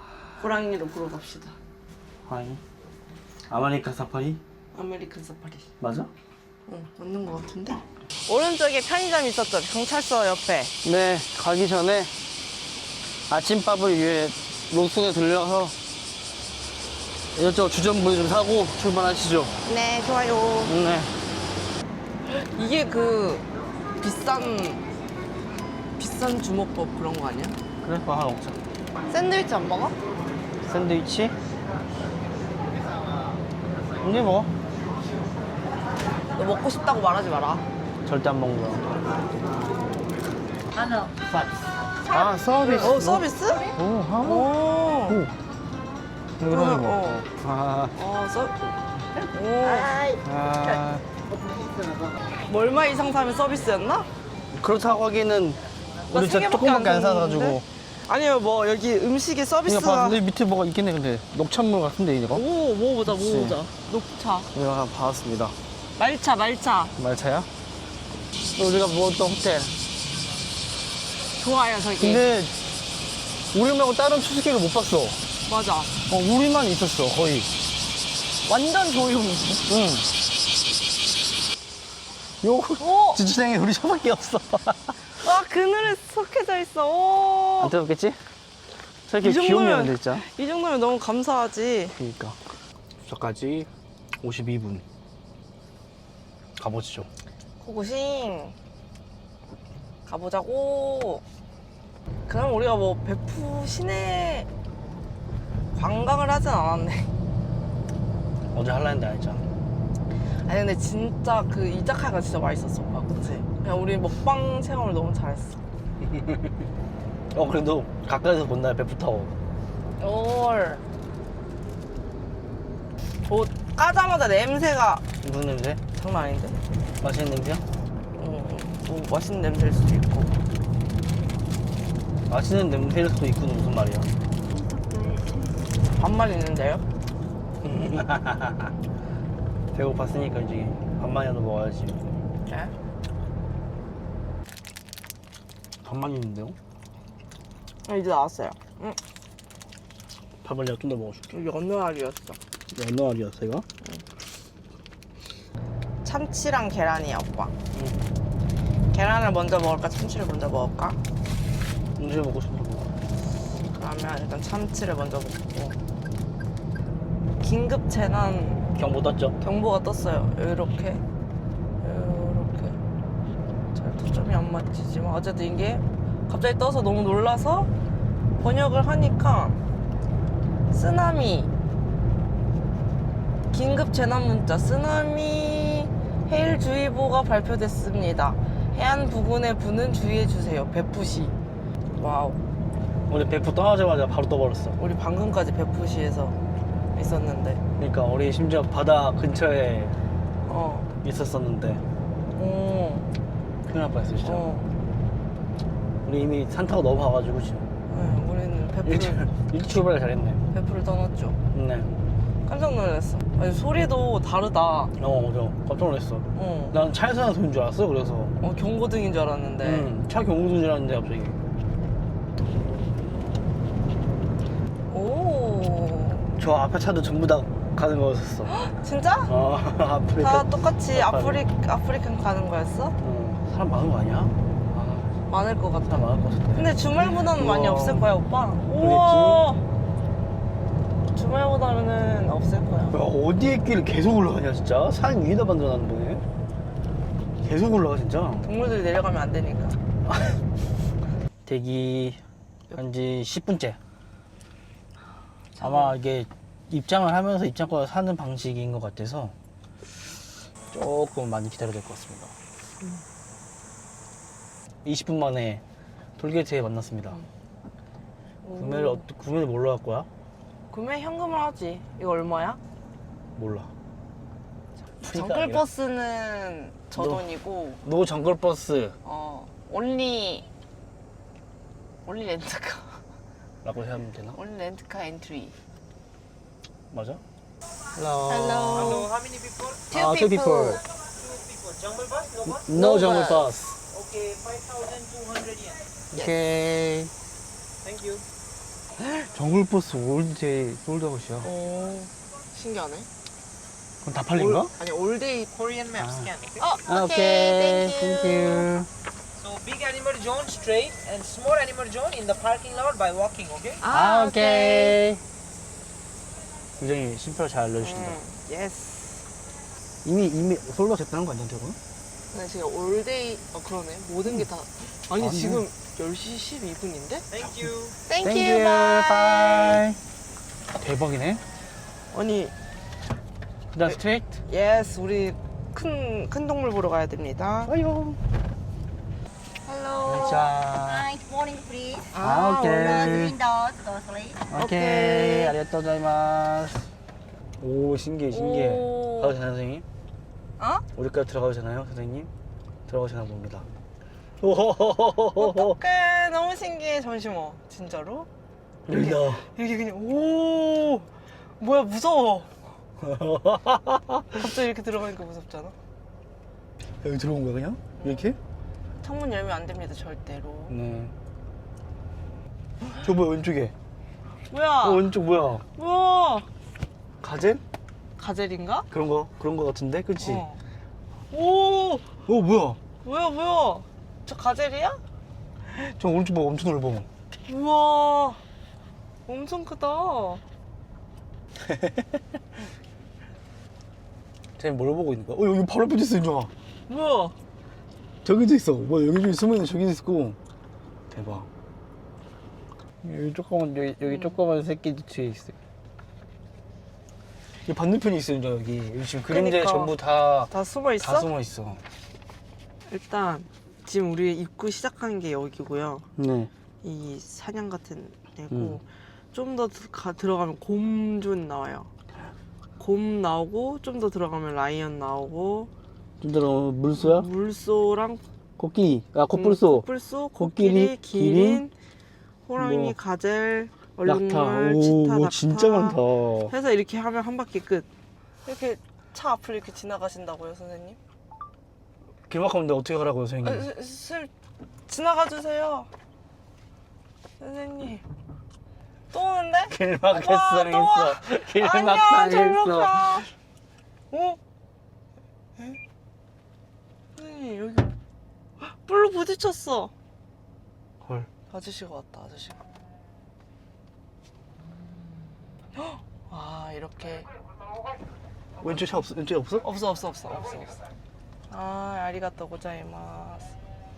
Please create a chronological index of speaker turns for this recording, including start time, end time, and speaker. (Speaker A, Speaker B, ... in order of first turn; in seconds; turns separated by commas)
Speaker A: 0.4-1.6, Speaker B: 2.2-2.6, Speaker B: 3.5-4.4, Speaker A: 4.7-5.7, Speaker B: 5.8-6.1, Speaker A: 6.7-10.8, Speaker B: 10.8-12.2, Speaker B: 13.3-15.8, Speaker B: 17.4-19.6, Speaker A: 19.6-20.7, Speaker B: 20.7-21.1, Speaker A: 22.4-23.5, Speaker A: 24.0-24.8, Speaker A: 26.0-27.6, Speaker B: 27.8-28.6, Speaker A: 29.1-30.0, Speaker B: 30.6-31.4, Speaker B: 34.0-34.5, Speaker A: 36.4-37.7, Speaker B: 38.0-38.9, Speaker B: 42.1-44.5, Speaker A: 42.1-45.2, Speaker B: 45.1-45.3, Speaker B: 46.4-48.0, Speaker A: 46.5-47.3, Speaker A: 48.0-48.6, Speaker A: 49.3-50.2, Speaker B: 50.2-51.0, Speaker A: 52.5-54.1, Speaker B: 54.5-55.6, Speaker B: 56.1-57.6, Speaker A: 56.1-60.2, Speaker B: 59.7-62.5, Speaker A: 62.3-64.5, Speaker B: 63.1-63.6, Speaker B: 64.5-65.6, Speaker A: 66.0-67.0, Speaker B: 67.0-67.5, Speaker B: 68.5-69.8, Speaker A: 71.4-72.3, Speaker B: 72.0-72.6, Speaker B: 73.5-75.2, Speaker A: 75.5-75.9, Speaker B: 76.1-77.5, Speaker A: 78.5-79.7, Speaker B: 79.7-80.1, Speaker B: 82.4-85.0, Speaker A: 82.8-83.2, Speaker A: 85.2-87.7, Speaker B: 87.6-88.2, Speaker B: 89.1-90.2, Speaker A: 89.2-92.0, Speaker B: 92.0-92.4, Speaker B: 93.0-93.7, Speaker B: 94.2-94.8, Speaker B: 96.6-97.1, Speaker A: 97.6-98.6, Speaker A: 100.1-101.2, Speaker A: 102.3-104.5, Speaker A: 105.7-107.1, Speaker B: 108.5-109.5, Speaker A: 110.5-115.6, Speaker B: 116.0-116.6, Speaker B: 117.3-119.3, Speaker A: 120.0-120.8, Speaker A: 123.3-125.0, Speaker B: 125.2-125.8, Speaker A: 126.0-126.6, Speaker B: 127.0-127.6, Speaker A: 128.2-130.3, Speaker B: 132.3-134.1, Speaker A: 135.9-136.8, Speaker B: 137.6-138.7, Speaker B: 139.7-142.1, Speaker A: 142.5-142.7, Speaker B: 145.8-146.6, Speaker A: 147.9-149.0, Speaker B: 150.4-151.3, Speaker A: 151.3-152.4, Speaker B: 152.7-153.7, Speaker A: 156.0-157.5, Speaker B: 157.7-158.0, Speaker A: 158.9-161.0, Speaker B: 162.0-162.9, Speaker A: 163.6-165.8, Speaker A: 167.4-168.7, Speaker B: 168.8-169.4, Speaker A: 169.4-171.0, Speaker A: 171.8-172.8, Speaker A: 173.7-177.7, Speaker A: 178.4-179.6, Speaker A: 180.7-181.5, Speaker A: 183.5-191.3, Speaker A: 191.9-192.4, Speaker B: 193.1-194.8, Speaker A: 194.8-196.4, Speaker A: 196.9-197.6, Speaker B: 197.8-200.0, Speaker A: 200.4-200.9, Speaker B: 201.0-201.8, Speaker A: 202.4-203.1, Speaker B: 203.7-204.5, Speaker A: 204.2-204.7, Speaker B: 206.1-207.7, Speaker A: 207.9-209.3, Speaker B: 208.8-210.4, Speaker A: 210.5-211.4, Speaker B: 211.5-211.9, Speaker A: 212.4-214.9, Speaker B: 215.0-218.3, Speaker A: 216.3-216.8, Speaker A: 218.4-219.9, Speaker B: 219.6-221.4, Speaker A: 224.9-226.3, Speaker B: 226.4-228.5, Speaker A: 228.5-229.3, Speaker B: 229.3-231.4, Speaker A: 230.2-233.0, Speaker B: 233.0-235.1, Speaker A: 235.3-239.6, Speaker B: 235.9-238.1, Speaker B: 238.8-239.5, Speaker A: 241.1-243.0, Speaker B: 242.9-246.2, Speaker B: 247.4-248.5, Speaker A: 248.4-249.8, Speaker B: 250.1-250.4, Speaker B: 251.4-252.2, Speaker B: 252.7-253.8, Speaker A: 255.6-256.0, Speaker B: 255.6-259.4, Speaker B: 260.7-262.3, Speaker B: 264.8-265.6, Speaker B: 266.2-267.2, Speaker A: 268.4-269.1, Speaker B: 268.6-270.1, Speaker A: 270.7-272.6, Speaker B: 273.4-273.7, Speaker B: 275.0-275.6, Speaker A: 275.1-277.8, Speaker B: 276.9-277.3, Speaker B: 277.8-279.0, Speaker A: 279.0-280.5, Speaker A: 282.1-283.0, Speaker B: 283.6-284.4, Speaker A: 284.3-285.6, Speaker B: 286.9-287.2, Speaker B: 287.9-289.1, Speaker A: 288.3-289.1, Speaker C: 288.7-289.9, Speaker A: 289.9-290.8, Speaker B: 289.9-290.8, Speaker C: 291.1-292.8, Speaker B: 292.5-293.8, Speaker A: 292.7-293.5, Speaker C: 293.9-295.8, Speaker B: 296.1-297.1, Speaker C: 297.8-298.2, Speaker B: 299.0-301.5, Speaker A: 301.4-303.1, Speaker B: 304.0-304.7, Speaker A: 304.4-305.5, Speaker C: 305.5-306.7, Speaker B: 306.0-306.3, Speaker A: 306.6-308.7, Speaker B: 306.9-308.9, Speaker C: 309.4-313.8, Speaker A: 313.8-315.0, Speaker B: 313.9-315.2, Speaker B: 316.8-318.2, Speaker A: 317.8-319.3, Speaker B: 320.0-321.8, Speaker A: 322.3-327.2, Speaker B: 325.1-325.6, Speaker C: 327.3-328.0, Speaker A: 328.1-329.8, Speaker B: 328.2-330.0, Speaker B: 330.8-331.4, Speaker A: 332.1-332.5, Speaker B: 333.7-334.4, Speaker A: 334.5-337.7, Speaker B: 337.6-338.2, Speaker A: 339.6-340.5, Speaker B: 340.1-341.2, Speaker D: 341.2-342.1, Speaker A: 342.1-343.3, Speaker B: 342.2-343.5, Speaker D: 343.1-344.3, Speaker B: 344.5-346.9, Speaker A: 344.5-345.6, Speaker B: 347.6-349.9, Speaker A: 348.3-349.4, Speaker A: 350.6-350.9, Speaker B: 350.9-352.3, Speaker B: 352.9-353.7, Speaker B: 354.4-355.8, Speaker A: 355.4-358.3, Speaker B: 358.9-359.4, Speaker A: 358.9-362.5, Speaker B: 363.0-364.4, Speaker A: 364.3-365.8, Speaker B: 367.0-368.4, Speaker A: 368.0-368.3, Speaker A: 369.0-370.8, Speaker B: 370.7-371.1, Speaker B: 373.0-373.7, Speaker A: 374.5-375.1, Speaker B: 374.8-375.6, Speaker A: 375.8-376.5, Speaker B: 377.2-377.6, Speaker A: 378.2-378.9, Speaker B: 378.9-380.5, Speaker A: 380.2-380.6, Speaker A: 381.3-382.1, Speaker B: 382.3-382.8, Speaker A: 383.0-385.0, Speaker B: 385.6-387.1, Speaker A: 387.5-388.4, Speaker A: 389.3-390.4, Speaker B: 391.6-392.2, Speaker B: 394.6-396.5, Speaker A: 396.9-397.4, Speaker B: 398.2-400.4, Speaker B: 401.1-401.5, Speaker B: 403.0-405.6, Speaker A: 404.1-404.3, Speaker B: 407.7-411.8, Speaker A: 409.3-409.9, Speaker A: 410.5-411.3, Speaker A: 412.9-416.1, Speaker B: 416.2-416.5, Speaker A: 416.8-421.9, Speaker B: 418.5-418.8, Speaker A: 422.8-425.7, Speaker B: 426.2-427.3, Speaker A: 427.0-428.2, Speaker B: 428.6-429.9, Speaker A: 429.3-431.7, Speaker B: 430.4-431.6, Speaker A: 432.5-437.9, Speaker B: 432.6-433.0, Speaker B: 434.1-436.5, Speaker A: 438.4-441.0, Speaker B: 442.3-443.7, Speaker A: 443.4-444.3, Speaker A: 444.9-445.9, Speaker A: 447.4-448.0, Speaker A: 449.1-453.3, Speaker B: 449.7-453.2, Speaker A: 454.1-454.4, Speaker A: 457.2-457.9, Speaker A: 458.6-459.9, Speaker B: 461.0-461.3, Speaker A: 461.5-462.6, Speaker A: 465.8-467.3, Speaker B: 468.6-469.6, Speaker A: 469.6-470.8, Speaker A: 471.5-473.5